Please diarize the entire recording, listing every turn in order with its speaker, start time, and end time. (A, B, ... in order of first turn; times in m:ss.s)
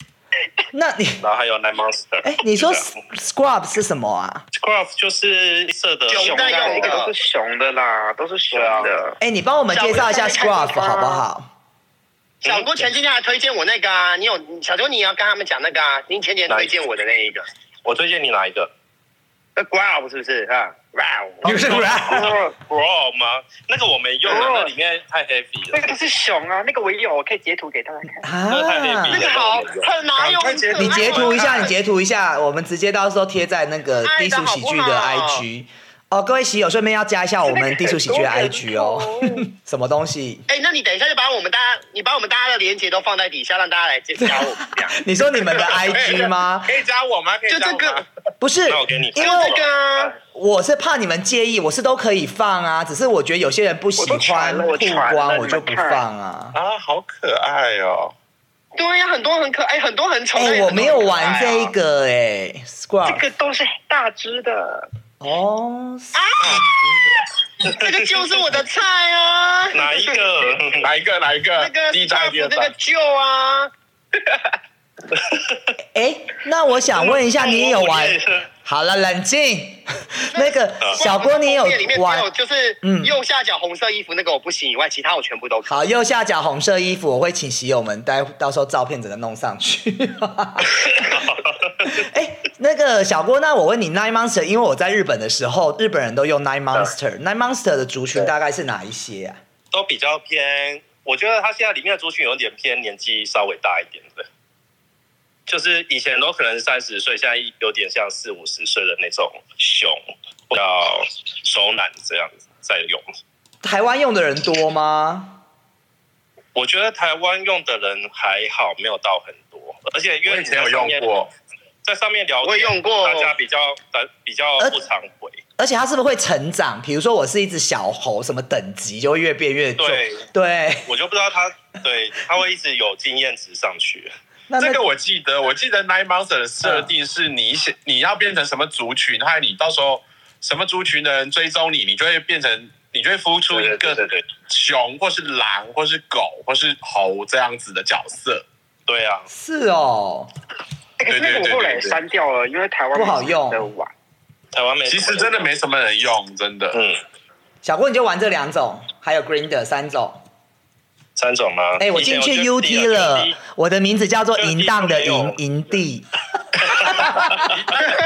0:00.7-0:01.2 A
0:01.2-0:02.9 B
0:02.2-0:04.4 A
0:04.5-0:07.0 B
0:06.1-0:07.1 C
0:06.1-0:09.2 D
0:08.5-0:08.9 B
0:09.2-0:11.5 A
0:09.7-0:10.6 C
0:10.1-0:11.2 D
0:12.4-0:17.4 C
0:16.5-0:16.7 B
0:17.8-0:18.7 B
0:19.6-0:21.8 C
0:21.4-0:22.4 A
0:21.9-0:26.0 B
0:22.1-0:22.5 D
0:24.3-0:24.7 D
0:25.7-0:28.3 D
0:28.2-0:29.3 A
0:28.5-0:29.9 B
0:29.1-0:31.7 C
0:30.2-0:31.7 E
0:30.8-0:40.4 A
0:34.0-0:35.5 C
0:37.4-0:39.5 D
0:40.5-0:45.0 C
0:44.2-0:46.8 A
0:45.7-0:48.0 E
0:47.5-0:48.0 C
0:48.4-0:49.6 A
0:48.7-0:50.1 B
0:49.2-0:50.2 C
0:50.3-0:56.6 A
0:54.0-0:56.0 D
0:56.5-0:58.1 E
0:58.8-1:01.7 C
1:00.3-1:03.2 A
1:03.0-1:04.9 D
1:05.2-1:07.2 A
1:06.2-1:06.6 C
1:07.6-1:10.1 C
1:09.7-1:10.9 B
1:10.8-1:12.7 E
1:11.6-1:13.7 C
1:15.2-1:15.6 B
1:15.9-1:22.3 A
1:17.0-1:18.4 B
1:20.3-1:25.8 C
1:22.8-1:23.1 A
1:25.7-1:31.2 A
1:30.9-1:32.0 B
1:31.8-1:39.4 A
1:39.7-1:44.3 B
1:45.5-1:50.0 B
1:50.5-1:53.0 B
1:53.6-1:55.4 A
1:56.6-2:01.1 B
2:00.2-2:01.3 E
2:01.8-2:05.4 B
2:02.4-2:03.3 C
2:05.6-2:10.9 A
2:09.8-2:10.3 B
2:10.9-2:14.1 B
2:14.5-2:14.8 A
2:14.6-2:28.4 E
2:23.5-2:24.2 B
2:28.9-2:29.3 B
2:29.3-2:30.3 A
2:31.0-2:33.9 D
2:31.1-2:32.0 E
2:32.9-2:33.7 A
2:34.5-2:35.5 B
2:34.9-2:36.8 E
2:36.7-2:37.0 B
2:37.6-2:40.2 A
2:41.2-2:43.4 B
2:41.8-2:47.5 A
2:44.4-2:45.4 B
2:46.5-2:47.6 B
2:47.5-2:47.9 E